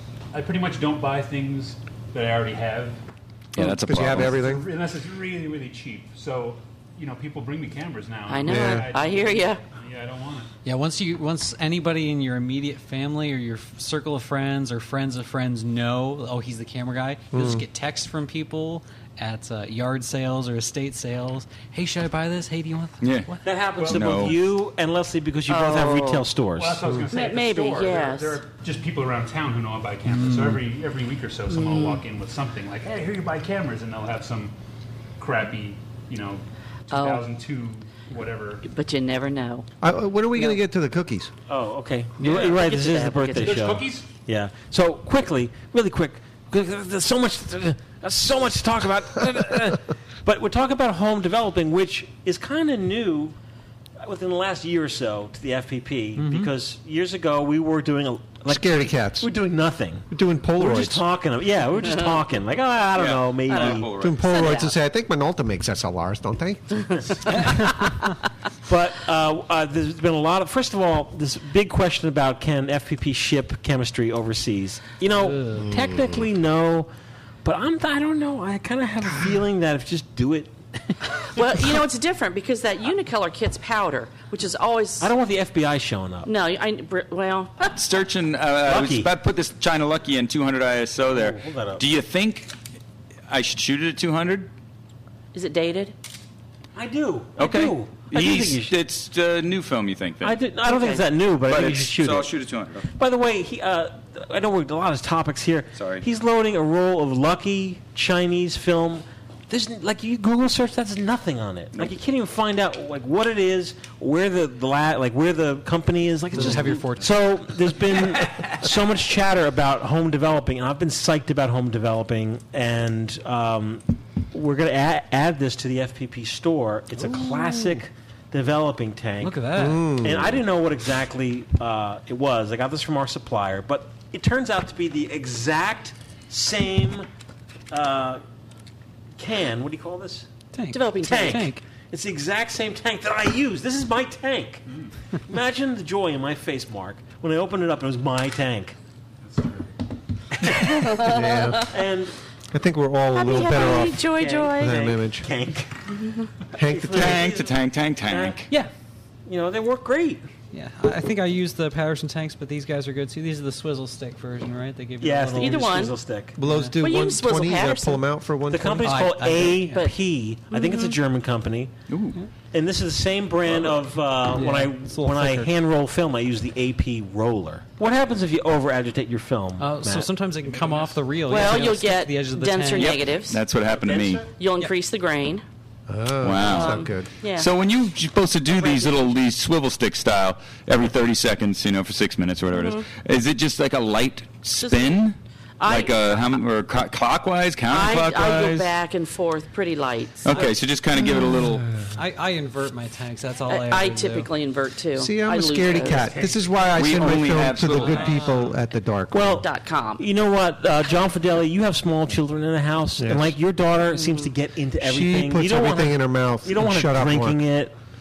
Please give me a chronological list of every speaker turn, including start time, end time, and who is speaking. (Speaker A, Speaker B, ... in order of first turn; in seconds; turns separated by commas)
Speaker A: 0.3-3.0, Speaker B: 3.5-4.4, Speaker C: 3.6-4.6, Speaker A: 4.0-10.5, Speaker D: 8.3-9.6, Speaker C: 8.4-8.9, Speaker E: 10.6-23.6, Speaker C: 17.3-17.6, Speaker B: 23.0-23.3, Speaker F: 23.4-26.8, Speaker A: 23.8-24.3, Speaker B: 23.9-24.4, Speaker D: 25.5-26.3, Speaker A: 26.6-34.5, Speaker D: 27.1-28.4, Speaker E: 30.1-30.6, Speaker D: 31.5-32.0, Speaker A: 35.2-38.6, Speaker D: 36.9-37.2, Speaker D: 38.6-39.7, Speaker C: 39.8-41.3, Speaker F: 41.5-53.4, Speaker D: 42.2-43.7, Speaker A: 43.4-44.1, Speaker F: 54.0-64.0, Speaker E: 56.1-56.5, Speaker C: 58.5-59.3, Speaker C: 60.1-61.0, Speaker B: 62.9-64.5, Speaker D: 63.5-64.7, Speaker C: 64.0-66.9, Speaker E: 67.3-67.7, Speaker F: 68.7-76.9, Speaker E: 75.2-75.7, Speaker F: 77.4-81.1, Speaker D: 81.3-85.1, Speaker F: 85.0-86.3, Speaker D: 86.2-87.6, Speaker B: 87.6-92.5, Speaker F: 88.6-89.1, Speaker F: 91.1-91.8, Speaker B: 93.3-94.5, Speaker D: 95.3-95.9, Speaker F: 96.7-98.8, Speaker B: 97.3-100.4, Speaker F: 100.2-129.4, Speaker D: 100.6-101.0, Speaker B: 101.4-102.8, Speaker B: 105.7-106.0, Speaker E: 116.3-117.2, Speaker E: 129.2-129.9, Speaker C: 129.6-130.4, Speaker F: 129.9-137.1, Speaker F: 137.7-138.2, Speaker F: 139.2-140.3, Speaker E: 140.5-141.6, Speaker D: 140.7-141.5, Speaker F: 141.0-144.6, Speaker F: 145.3-148.7, Speaker A: 149.2-149.7, Speaker F: 150.3-151.0, Speaker D: 150.7-151.7, Speaker C: 151.0-151.7, Speaker F: 151.7-152.1, Speaker C: 152.5-155.3, Speaker D: 153.1-154.8, Speaker F: 154.2-155.8, Speaker C: 156.5-157.3, Speaker F: 156.6-158.4, Speaker B: 156.9-158.5, Speaker F: 159.2-160.2, Speaker E: 160.5-165.8, Speaker F: 165.0-166.4, Speaker D: 165.4-166.0, Speaker C: 166.3-169.0, Speaker E: 166.4-166.8, Speaker D: 166.8-168.0, Speaker F: 168.5-171.7, Speaker E: 168.8-169.9, Speaker D: 170.5-171.0, Speaker B: 171.9-172.2, Speaker F: 172.5-180.1, Speaker E: 174.3-175.5, Speaker E: 179.6-183.0, Speaker A: 180.4-181.0, Speaker D: 181.3-183.4, Speaker B: 182.7-184.2, Speaker F: 183.7-184.2, Speaker D: 184.3-185.4, Speaker C: 185.9-187.1, Speaker B: 186.2-198.7, Speaker D: 186.4-187.5, Speaker D: 188.5-189.1, Speaker D: 192.5-192.9, Speaker D: 194.6-195.0, Speaker D: 195.6-196.1, Speaker D: 197.7-200.5, Speaker B: 200.2-201.7, Speaker C: 201.0-201.3, Speaker E: 201.9-204.3, Speaker D: 203.5-206.3, Speaker C: 204.9-209.4, Speaker A: 205.7-206.6, Speaker B: 206.7-208.3, Speaker E: 207.8-208.5, Speaker F: 209.1-209.5, Speaker D: 209.4-210.0, Speaker F: 210.0-217.7, Speaker C: 213.0-213.3, Speaker D: 213.9-214.3, Speaker C: 214.8-217.4